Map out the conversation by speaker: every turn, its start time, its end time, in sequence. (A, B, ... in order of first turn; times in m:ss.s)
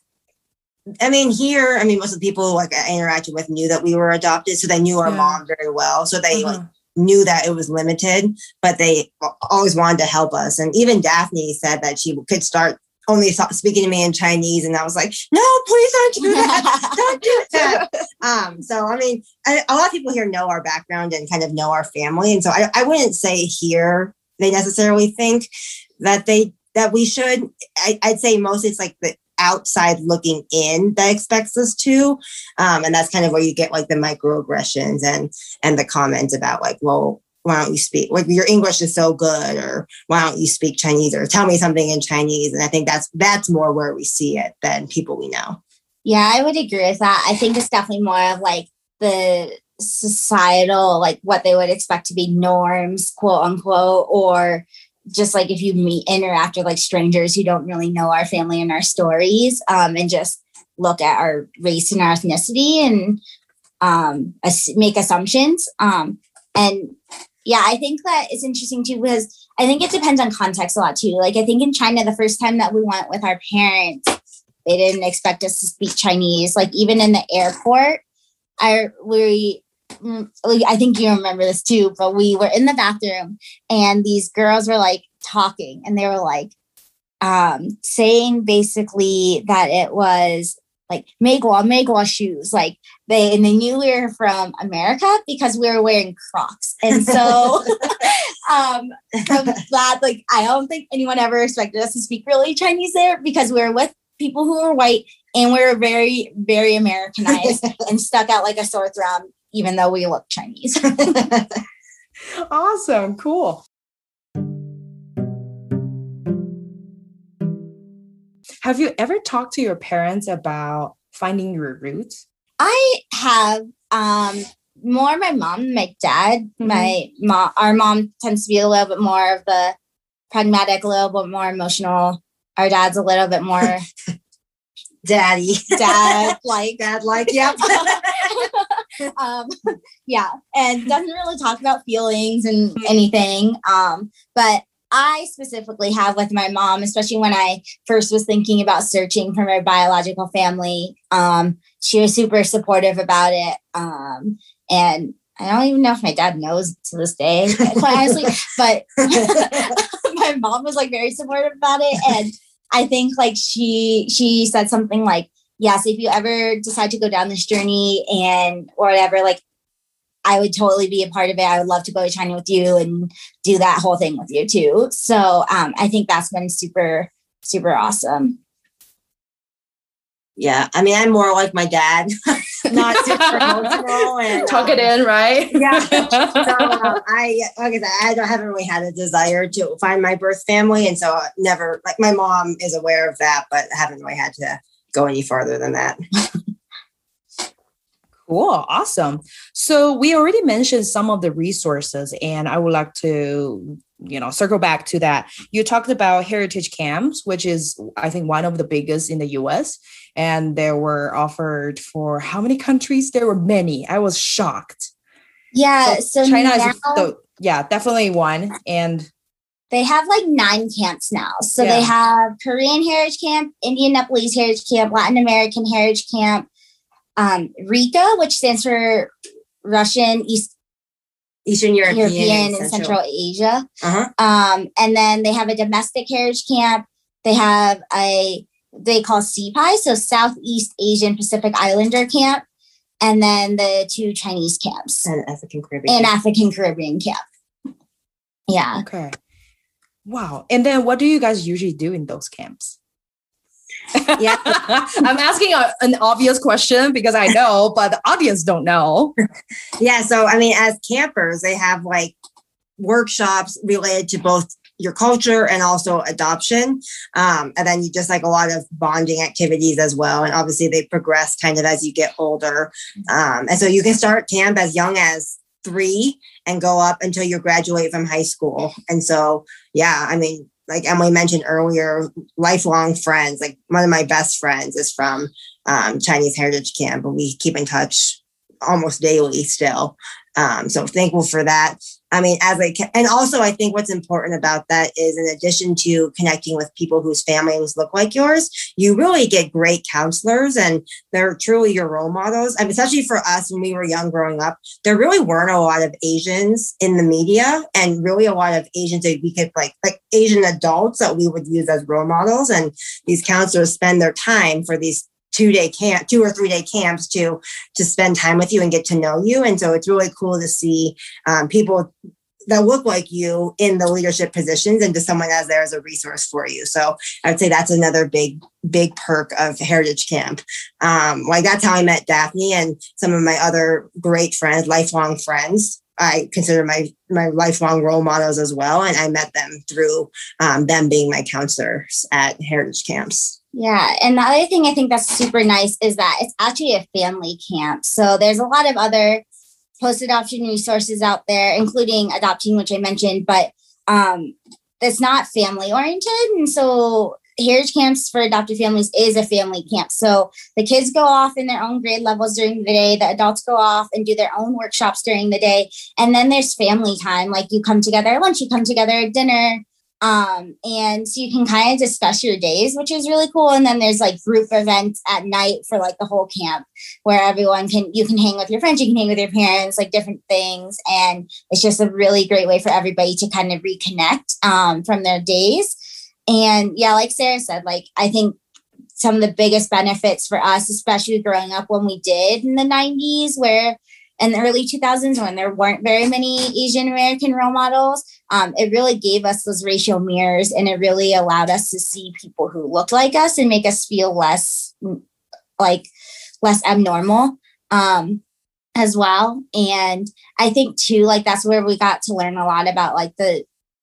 0:01.0-0:25.5 A
0:05.0-0:05.4 B
0:06.3-0:06.7 B
0:16.2-0:17.0 C
0:26.0-0:45.6 A
0:46.0-1:03.2 C
1:03.8-1:14.1 C
1:14.7-1:18.0 C
1:18.6-1:26.5 C
1:27.2-1:51.3 C
1:52.5-1:53.6 B
1:58.6-2:02.2 B
2:02.6-2:09.7 C
2:10.3-2:13.8 C
2:15.0-2:18.3 A
2:15.8-2:49.4 C
2:39.1-2:39.8 A
2:50.3-2:58.4 C
3:00.4-3:04.9 A
3:02.7-3:03.9 B
3:04.4-3:07.0 B
3:05.5-3:16.0 A
3:18.3-3:34.9 B
3:35.5-3:37.1 C
3:35.8-3:39.1 B
3:39.7-3:46.5 C
3:41.6-3:41.9 B
3:47.2-3:49.1 C
3:49.6-3:50.5 C
3:51.5-3:53.0 A
3:51.8-3:53.6 C
3:53.8-3:54.1 A
3:54.2-4:02.4 C
4:03.0-4:05.1 C
4:05.1-4:06.1 A
4:05.9-4:07.2 C
4:08.5-4:08.8 C
4:08.8-4:09.2 B
4:10.1-4:12.8 B
4:13.9-4:19.2 B
4:14.2-4:14.6 A
4:19.8-4:22.2 A
4:22.8-5:21.9 A
5:22.5-5:43.4 A
5:43.5-5:49.2 C
5:49.8-6:25.7 C
6:26.3-6:28.4 C
6:29.0-6:45.0 C
6:45.6-6:45.9 C
6:46.4-6:48.2 C
6:48.8-6:53.4 C